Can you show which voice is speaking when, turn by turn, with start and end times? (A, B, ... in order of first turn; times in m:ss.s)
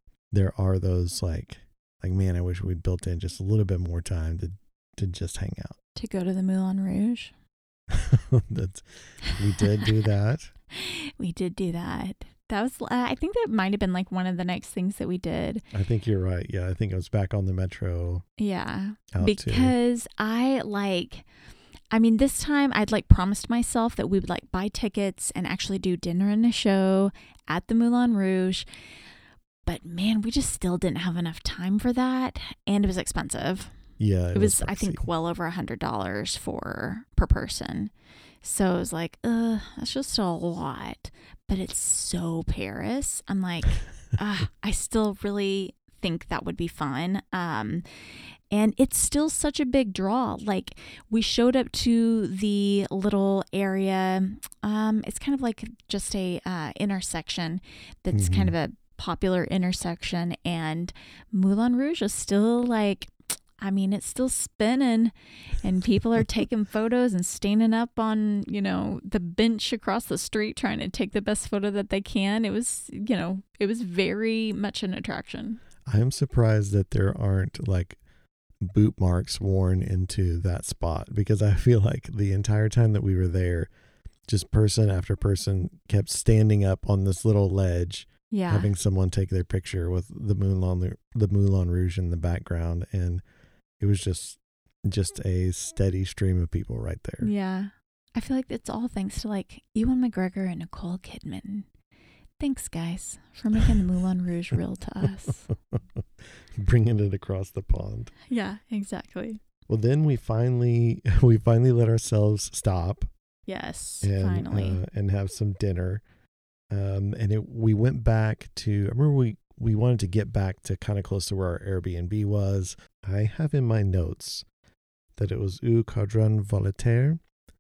0:00.3-0:05.8 A
0:06.0-0:07.3 B
0:07.9-0:10.5 A
0:10.7-0:15.6 B
0:15.7-0:18.2 A
0:18.4-0:21.3 B
0:19.1-0:19.8 A
0:21.9-0:28.6 B
0:29.7-0:33.8 B
0:34.0-0:35.0 A
0:34.4-0:37.9 B
0:38.4-0:47.9 B
0:48.5-1:15.6 B
0:58.1-0:58.6 A
1:15.8-1:18.0 A
1:18.6-1:23.7 A
1:24.3-1:33.2 A
1:28.3-1:28.7 B
1:33.8-1:37.3 A
1:37.2-1:41.7 B
1:42.4-1:45.5 B
1:45.7-1:48.1 A
1:48.3-1:49.4 B
1:49.7-1:53.1 A
1:53.5-1:54.8 B
1:54.0-1:56.0 A
1:56.7-2:04.4 A
2:05.2-2:07.2 A